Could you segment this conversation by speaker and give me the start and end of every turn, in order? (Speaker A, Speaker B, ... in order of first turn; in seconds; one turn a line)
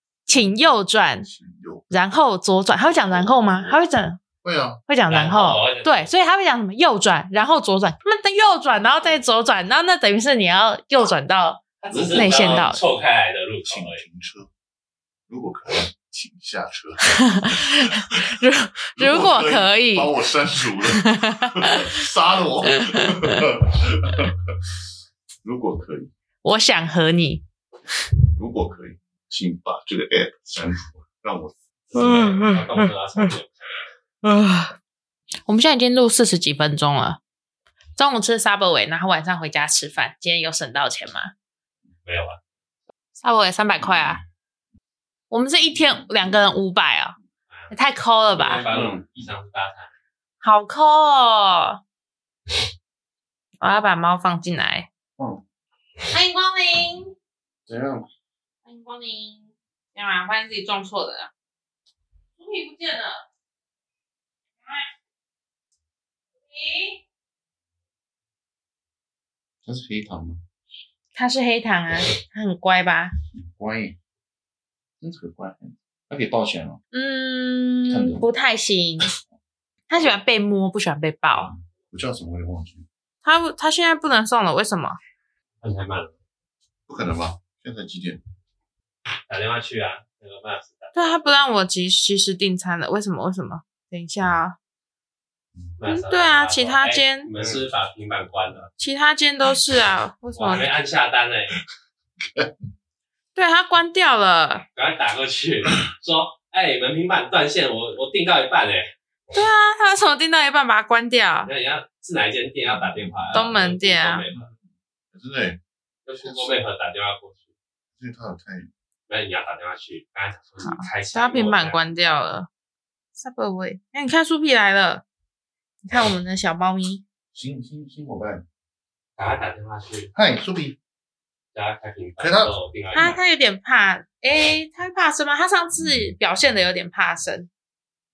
Speaker A: 0.3-1.3
Speaker B: 0.3-1.9
Speaker A: 1.9-4.2
Speaker B: 4.4-4.8
Speaker A: 4.9-12.8
Speaker C: 5.1-6.1
Speaker C: 11.8-14.0
Speaker B: 11.9-12.8
Speaker B: 13.7-14.5
Speaker B: 15.3-18.4
Speaker A: 17.1-22.0
Speaker B: 18.9-24.5
Speaker A: 22.7-23.5
Speaker B: 25.4-26.1
Speaker A: 26.4-27.4
Speaker B: 28.4-32.5
Speaker C: 31.9-33.8
Speaker A: 32.0-32.6
Speaker A: 34.2-34.7
Speaker A: 35.5-37.2
Speaker A: 38.0-41.3
Speaker C: 42.0-42.4
Speaker A: 43.2-44.2
Speaker A: 45.3-47.1
Speaker A: 47.7-48.7
Speaker C: 48.3-49.9
Speaker B: 48.7-49.0
Speaker A: 50.4-51.8
Speaker A: 53.6-54.9
Speaker B: 55.2-55.4
Speaker A: 56.1-57.1
Speaker B: 57.6-58.1
Speaker A: 58.6-61.3
Speaker A: 62.4-63.2
Speaker A: 66.5-67.0
Speaker B: 69.7-70.4
Speaker A: 71.1-73.1
Speaker B: 73.3-74.0
Speaker B: 75.0-76.8
Speaker A: 76.9-79.1
Speaker B: 77.9-78.2
Speaker B: 79.0-79.3
Speaker A: 79.9-81.5
Speaker B: 81.3-82.8
Speaker A: 83.2-85.0
Speaker C: 85.6-86.1
Speaker B: 86.9-88.2
Speaker C: 89.3-91.2
Speaker A: 90.9-94.6
Speaker C: 95.8-98.7
Speaker A: 95.8-97.3
Speaker A: 98.8-100.7
Speaker C: 100.3-101.6
Speaker A: 103.3-104.6
Speaker C: 104.7-108.9
Speaker A: 109.3-111.5
Speaker C: 111.4-114.5
Speaker B: 112.6-113.5
Speaker A: 113.3-114.2
Speaker B: 114.3-115.6
Speaker C: 116.0-117.5
Speaker B: 116.2-116.6
Speaker B: 118.0-118.7
Speaker C: 119.1-121.8
Speaker A: 120.6-122.5
Speaker A: 123.1-125.0
Speaker A: 125.8-127.0
Speaker B: 127.3-128.4
Speaker C: 129.2-130.1
Speaker B: 130.1-130.8
Speaker C: 131.5-133.2
Speaker B: 132.2-132.6
Speaker A: 132.9-137.5